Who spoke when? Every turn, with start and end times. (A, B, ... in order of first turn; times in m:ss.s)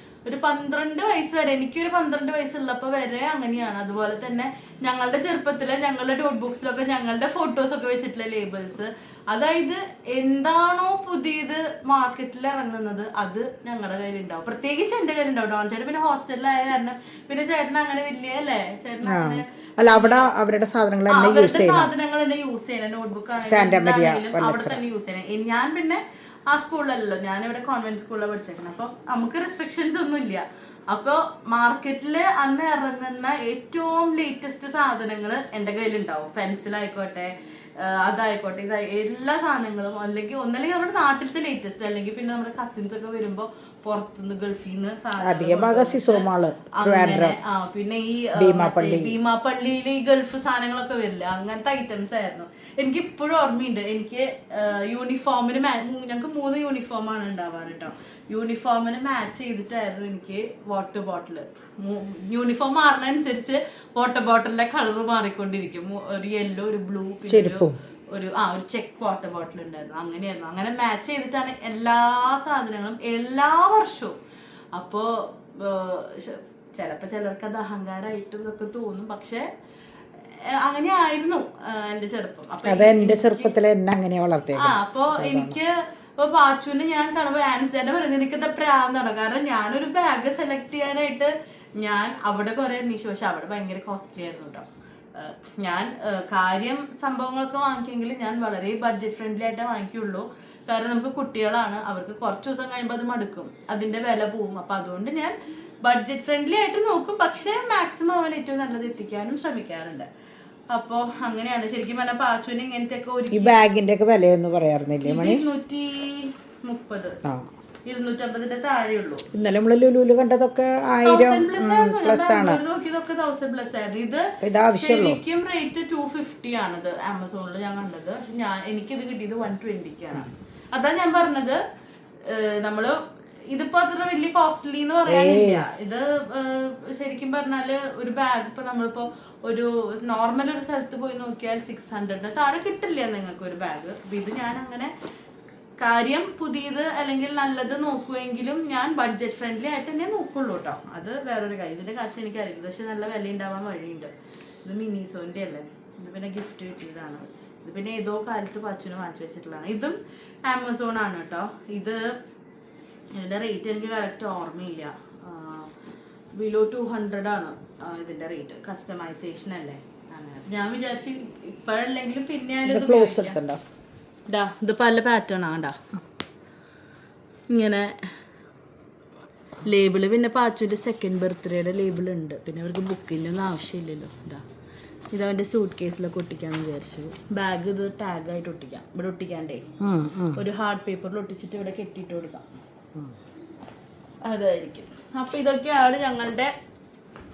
0:00.2-0:20.3 A
0:19.0-0:21.9 B
0:21.1-1:14.2 A
0:23.4-0:24.8 B
0:45.2-0:47.4 B
0:48.4-0:49.2 B
1:07.3-1:07.8 B
1:14.7-1:19.5 A
1:20.4-1:23.5 A
1:22.6-1:25.6 B
1:24.6-1:50.1 A
1:50.7-1:53.6 A
1:53.3-1:55.4 B
1:55.0-1:57.2 A
1:57.8-1:59.2 A
1:59.3-2:02.6 B
2:01.0-2:11.6 A
2:04.4-2:05.2 B
2:12.2-2:24.9 A
2:15.1-2:15.7 B
2:25.8-2:34.1 A
2:34.6-2:42.2 A
2:43.1-2:45.7 A
2:46.4-2:53.4 A
2:52.6-2:53.6 B
2:54.3-2:55.8 A
2:57.5-2:58.0 A
2:59.6-3:04.4 A
3:05.1-3:09.7 A
3:09.8-3:10.4 B
3:10.3-3:12.5 A
3:14.2-3:16.5 A